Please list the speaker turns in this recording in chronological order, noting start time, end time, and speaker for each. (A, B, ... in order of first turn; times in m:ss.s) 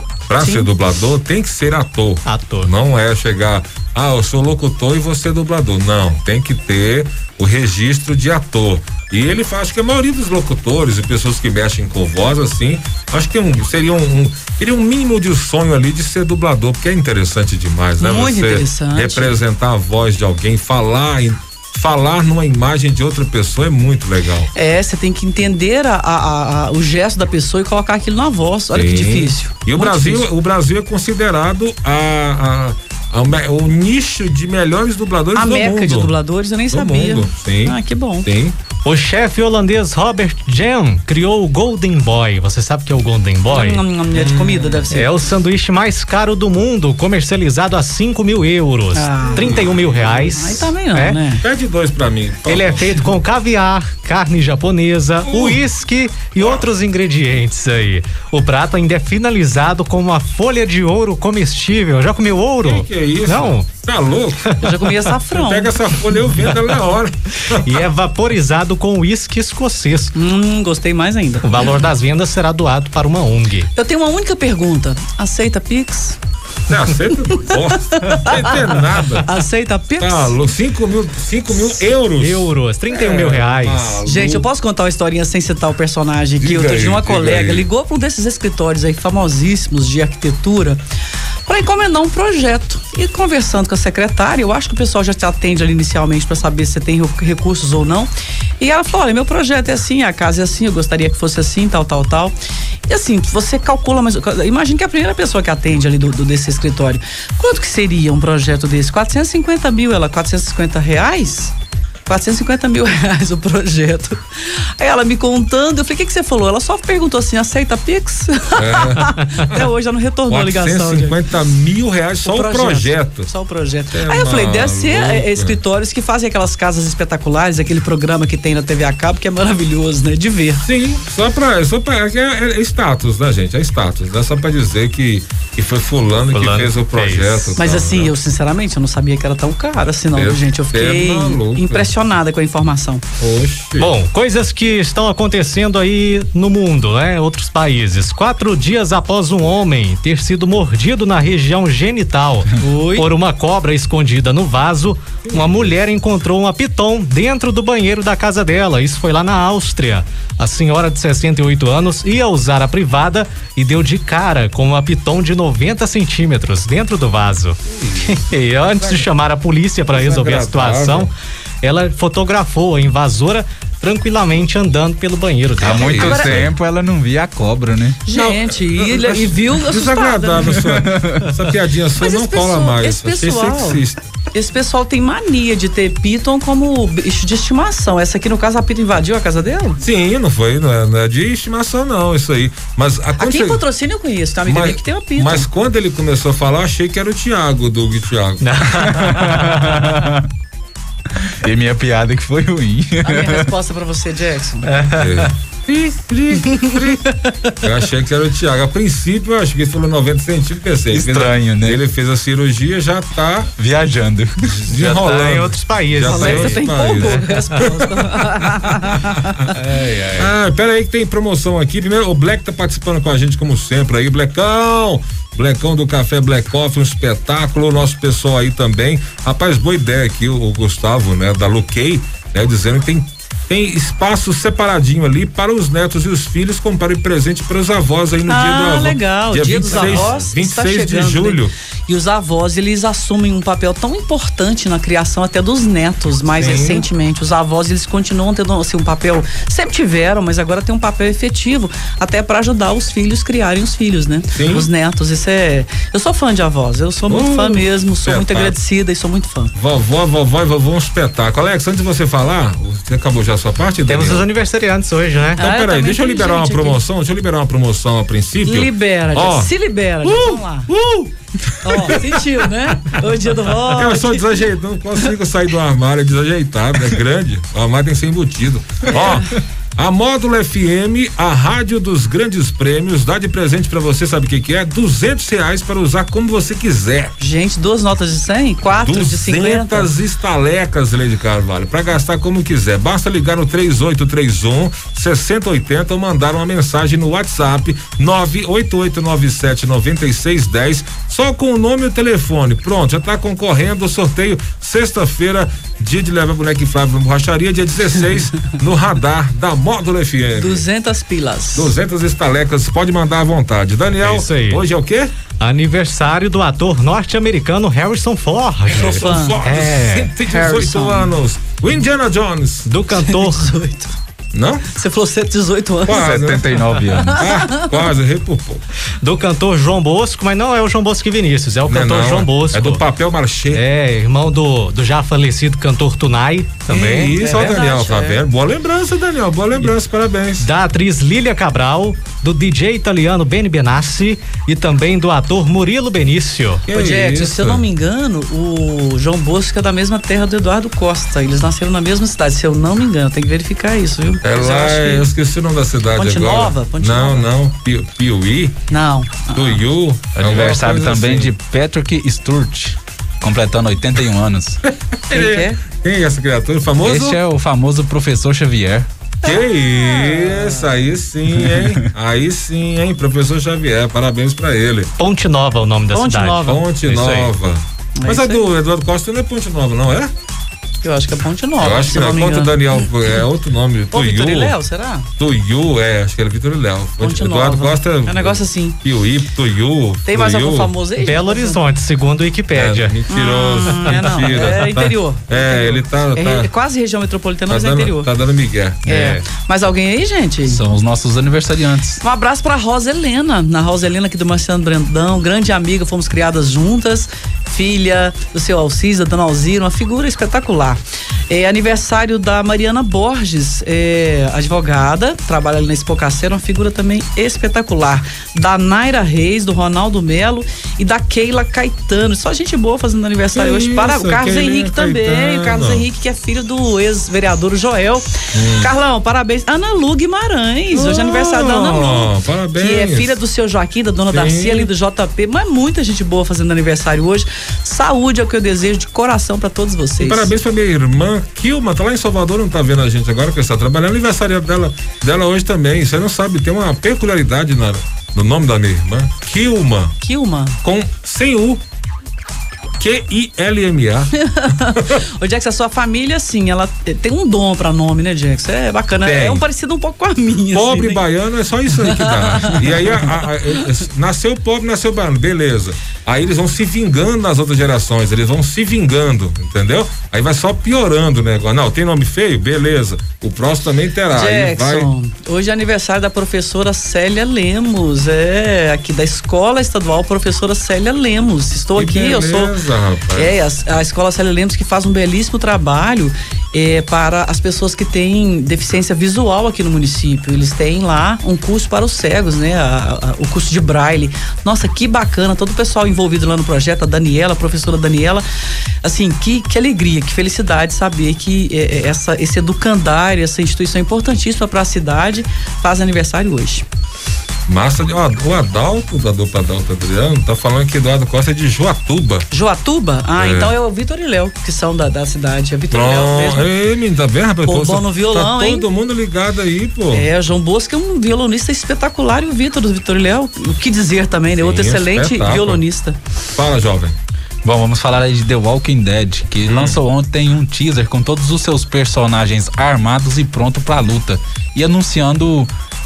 0:00.3-0:24.5 A
0:00.4-0:00.7 B
0:02.2-0:02.7 C
0:18.0-0:19.4 B
0:24.5-0:30.3 B
0:28.7-0:36.1 A
0:35.3-0:38.3 B
0:36.7-0:38.6 A
0:38.8-0:43.8 C
0:43.5-0:45.1 B
0:44.1-0:44.9 A
0:44.9-0:51.2 C
0:48.9-0:51.4 B
0:49.3-0:50.2 A
0:51.4-0:53.1 A
0:52.5-1:03.6 C
0:55.2-0:55.6 A
0:56.4-0:56.6 A
1:02.6-1:04.5 A
1:04.5-1:04.9 C
1:04.6-1:05.7 B
1:05.3-1:07.8 A
1:07.5-1:10.1 C
1:10.1-1:11.5 B
1:11.4-1:13.7 C
1:13.7-1:16.2 B
1:16.7-1:19.3 A
1:17.3-1:18.6 B
1:19.2-1:20.4 B
1:20.0-1:24.5 A
1:22.1-1:24.0 C
1:24.0-1:30.8 B
1:26.4-1:27.6 A
1:31.5-1:42.4 B
1:42.9-1:51.5 B
1:52.1-1:54.2 B
1:54.8-2:01.2 B
1:58.6-1:59.7 A
2:00.3-2:03.3 A
2:02.2-2:10.6 B
2:03.9-2:05.6 A
2:10.6-2:18.1 A
2:16.3-2:17.6 C
2:17.6-2:23.0 B
2:20.1-2:21.9 A
2:23.2-2:23.9 A
2:23.8-2:56.3 C
2:32.6-2:33.1 B
2:35.2-2:35.8 A
2:47.7-2:49.1 A
2:49.9-2:51.1 A
2:55.6-2:58.0 D
2:55.7-2:56.5 A
2:56.0-2:56.4 B
2:58.0-3:00.6 B
2:58.1-3:04.0 A
3:00.5-3:01.3 D
3:02.0-3:03.8 B
3:04.3-3:09.8 B
3:09.8-3:13.6 A
3:13.2-3:15.5 B
3:14.4-3:18.9 A
3:18.4-3:19.9 C
3:18.8-3:20.3 D
3:21.1-3:23.5 D
3:23.0-3:24.7 B
3:24.7-3:25.0 C
3:24.9-3:33.5 A
3:30.9-3:31.8 D
3:33.6-3:35.0 D
3:34.5-3:39.1 A
3:34.8-3:37.1 C
3:36.0-3:39.5 B
3:39.5-3:40.3 D
3:40.2-4:01.5 A
3:58.3-4:19.5 B
3:59.7-4:00.0 C
4:06.4-4:06.9 A
4:14.3-4:14.7 A
4:17.1-4:18.6 A
4:19.6-4:24.2 A
4:23.9-4:25.4 C
4:25.4-4:26.8 B
4:25.4-4:29.5 A
4:28.4-4:30.7 B
4:30.0-4:32.5 A
4:31.6-4:34.3 B
4:33.7-4:47.1 A
4:38.9-4:39.2 B
4:47.2-4:49.9 B
4:48.7-5:10.6 A
5:10.4-5:11.8 B
5:11.5-5:15.1 A
5:14.0-5:14.6 C
5:15.4-5:20.6 C
5:18.7-5:22.7 A
5:18.9-5:19.4 B
5:20.3-5:21.1 B
5:22.7-5:23.5 C
5:22.9-5:23.9 B
5:24.3-5:24.7 A
5:24.7-5:26.2 B
5:25.8-5:28.6 A
5:25.9-5:27.3 D
5:26.9-5:27.7 B
5:29.0-5:32.8 C
5:31.7-5:33.6 A
5:33.5-5:37.1 C
5:36.7-5:40.5 A
5:36.7-5:38.2 B
5:40.4-5:46.6 C
5:46.7-5:47.6 A
5:46.7-5:55.1 B
5:54.2-5:58.6 A
5:56.0-5:57.3 B
5:58.7-5:59.6 B
5:59.3-6:01.3 A
6:00.2-6:04.6 D
6:04.7-6:07.2 A
6:05.1-6:05.6 B
6:06.8-6:08.9 D
6:09.2-6:10.7 B
6:09.2-6:14.9 A
6:11.4-6:11.8 D
6:15.0-6:17.3 C
6:15.9-6:16.6 B
6:16.4-6:20.1 A
6:18.0-6:18.4 B
6:20.8-6:22.8 B
6:21.6-6:24.6 A
6:23.9-6:25.1 B
6:25.2-6:30.7 A
6:27.0-6:28.8 B
6:30.0-6:31.6 B
6:31.0-6:33.0 C
6:32.5-6:36.5 A
6:33.1-6:38.1 B
6:33.7-6:34.5 C
6:37.5-6:39.2 A
6:38.8-6:40.6 B
6:40.4-6:42.0 D
6:42.0-7:20.3 B
7:03.3-7:05.8 A
7:08.3-7:08.7 A
7:10.7-7:13.1 A
7:14.1-7:14.7 A
7:20.0-7:30.0 A
7:30.0-7:30.6 B
7:30.6-7:31.6 A
7:32.8-7:34.1 A
7:34.2-7:41.0 B
7:34.7-7:35.0 A
7:39.0-7:39.4 A
7:40.5-7:54.9 A
7:41.8-7:43.2 B
7:54.1-8:02.5 B
8:01.8-8:03.3 A
8:03.1-8:18.2 B
8:18.8-8:26.6 B
8:27.5-8:32.3 A
8:32.3-8:36.5 B
8:33.2-8:33.5 A
8:35.7-8:40.1 A
8:37.4-8:38.7 B
8:39.9-8:46.0 B
8:44.3-8:45.6 A
8:46.3-8:47.0 A
8:47.4-8:55.5 D
8:49.4-8:49.8 A